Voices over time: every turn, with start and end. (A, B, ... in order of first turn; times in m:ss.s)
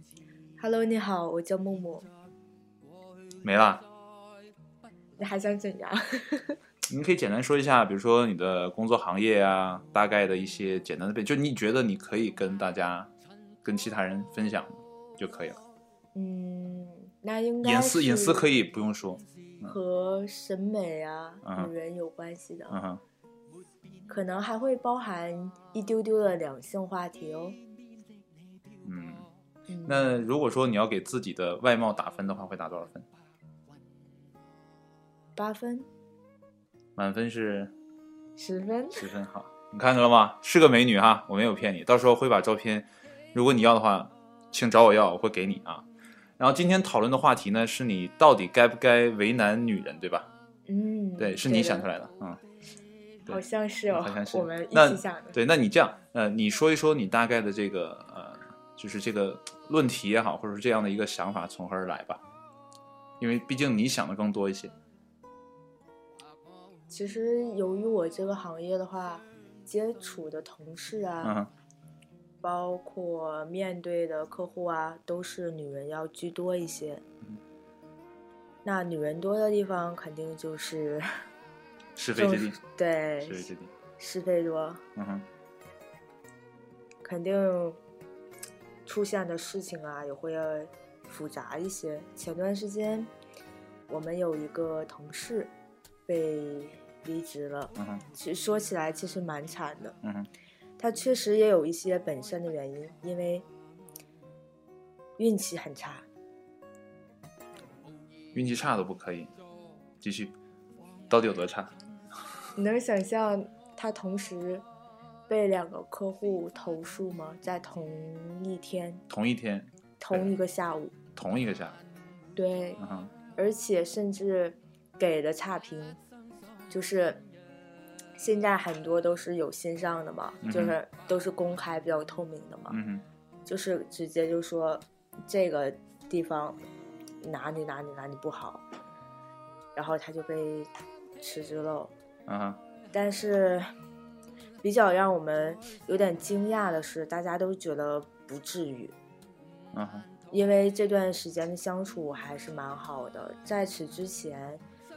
0:00.6-0:02.1 A
0:03.4-0:03.8 B
0:05.2-0:06.6 A
0:06.9-0:13.1 B
0:13.6-0:15.6 B
0:16.1-0:18.5 A
0:17.6-0:19.8 B
0:19.6-0:22.8 A
0:21.4-0:21.7 B
0:22.7-0:23.0 B
0:24.1-0:27.6 A
0:28.8-0:29.3 B
0:29.7-0:30.1 A
0:29.8-0:33.1 B
0:35.4-0:35.9 A
0:37.0-0:37.7 B
0:38.4-0:39.1 A
0:39.0-0:45.8 B
0:46.4-0:50.3 B
0:50.7-0:51.9 A
0:51.2-0:52.4 B
0:53.2-0:55.4 A
0:53.2-1:02.2 B
1:03.2-1:04.7 B
1:06.9-1:11.4 A
1:11.2-1:11.5 B
1:12.4-1:17.0 A
1:18.6-1:21.2 A
1:22.0-1:22.6 B
1:22.1-1:24.8 A
1:23.2-1:23.7 B
1:25.0-1:25.2 B
1:27.0-1:27.8 A
1:28.8-1:33.1 A
1:33.9-1:35.5 A
1:36.1-1:40.0 A
1:37.8-1:38.0 B
1:40.0-1:40.3 B
1:40.8-1:43.4 A
1:45.2-1:46.0 A
1:48.3-1:49.3 B
1:50.0-1:50.3 B
1:51.1-1:51.8 B
1:52.6-1:54.6 A
1:55.3-1:59.0 A
1:59.1-2:00.3 B
2:00.0-2:00.9 A
2:01.1-2:01.8 B
2:02.3-2:02.8 A
2:02.8-2:03.1 B
2:03.4-2:06.0 A
2:06.7-2:07.2 A
2:08.2-2:12.8 A
2:10.4-2:10.8 B
2:12.7-2:13.0 B
2:13.4-2:16.6 A
2:17.2-2:18.6 A
2:19.8-2:20.7 A
2:21.2-2:21.9 A
2:22.3-2:22.6 B
2:22.9-2:23.7 A
2:24.6-2:28.9 A
2:29.7-2:30.1 B
2:30.3-2:34.6 A